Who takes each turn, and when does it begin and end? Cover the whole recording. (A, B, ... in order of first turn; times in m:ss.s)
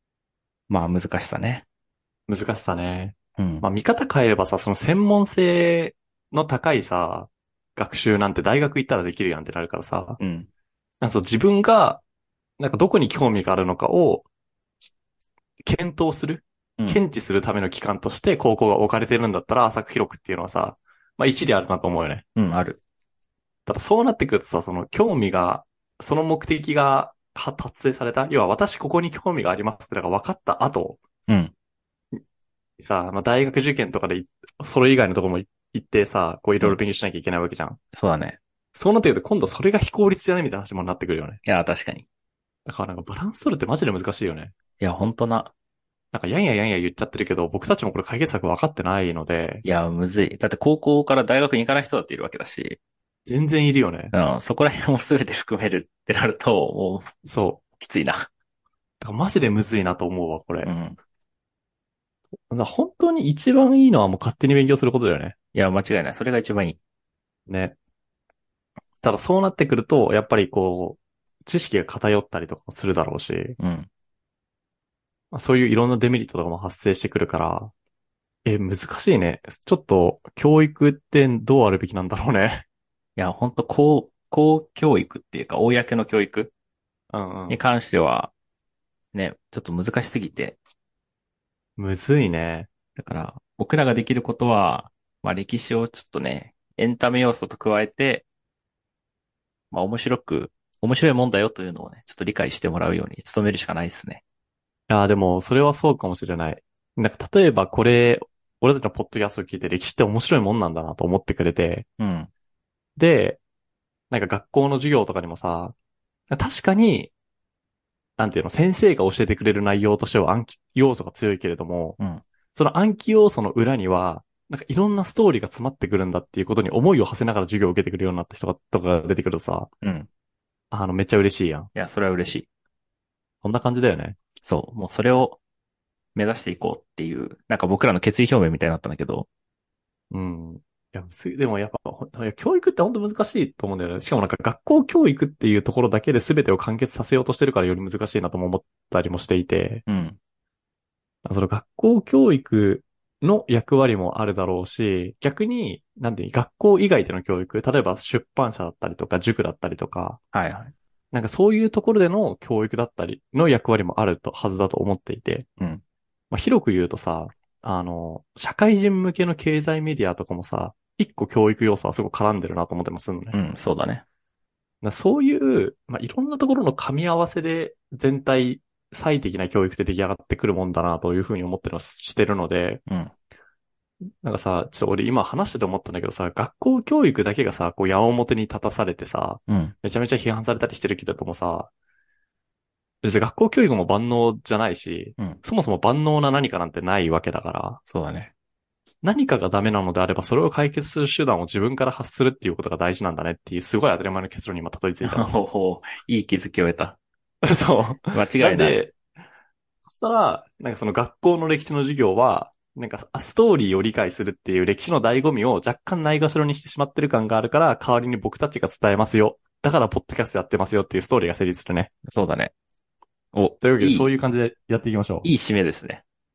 0:00.7-0:01.6 A
0:02.3-0:10.2 B
0:03.4-0:03.6 A
0:10.2-0:10.5 A
0:11.0-0:12.0 B
0:12.6-0:14.3 B
0:15.6-0:22.2 B
0:22.4-0:22.8 A
0:23.7-0:31.0 B
0:31.3-0:31.5 A
0:32.8-0:37.8 B
0:37.9-0:38.4 A
0:38.7-0:41.4 B
0:41.4-0:42.0 A
0:42.6-0:44.5 B
0:44.8-0:45.5 A
0:46.1-0:49.6 B
0:49.6-0:52.8 A
0:53.3-0:54.1 B
0:54.1-0:57.1 A
0:57.2-0:57.6 B
0:57.8-0:58.3 A
0:59.0-1:00.7 B
1:00.6-1:01.0 A
1:02.5-1:05.3 B
1:05.5-1:06.8 A
1:07.5-1:07.8 B
1:09.0-1:13.6 B
1:13.6-1:13.9 A
1:15.3-1:17.7 B
1:18.4-1:22.6 B
1:23.2-1:26.5 A
1:27.1-1:27.6 B
1:27.5-1:28.3 A
1:29.1-1:30.6 A
1:31.8-1:32.7 B
1:33.0-1:38.2 A
1:39.7-1:44.2 A
1:44.9-1:51.8 B
1:52.0-1:52.3 A
1:53.0-1:53.4 B
1:54.1-1:55.7 B
1:56.3-1:57.1 B
1:58.2-2:02.0 B
2:02.5-2:09.7 B
2:09.8-2:10.1 A
2:10.7-2:11.7 B
2:11.7-2:12.4 A
2:13.4-2:14.2 B
2:14.4-2:15.4 A
2:16.1-2:19.3 A
2:20.1-2:29.8 B
2:29.9-2:30.2 A
2:31.2-2:40.2 B
2:40.3-2:40.7 A
2:41.1-2:45.4 B
2:46.3-2:53.4 B
2:53.3-2:54.0 A
2:54.8-3:02.8 B
3:02.9-3:03.1 A
3:04.2-3:11.7 B
3:09.5-3:09.7 A
3:13.0-3:17.8 B
3:17.9-3:18.3 A
3:19.0-3:25.3 B
3:25.0-3:27.0 A
3:27.5-3:28.9 B
3:28.1-3:28.8 A
3:29.8-3:41.9 B
3:42.1-3:42.5 A
3:43.3-3:44.1 A
3:43.6-3:45.3 B
3:45.2-3:46.0 A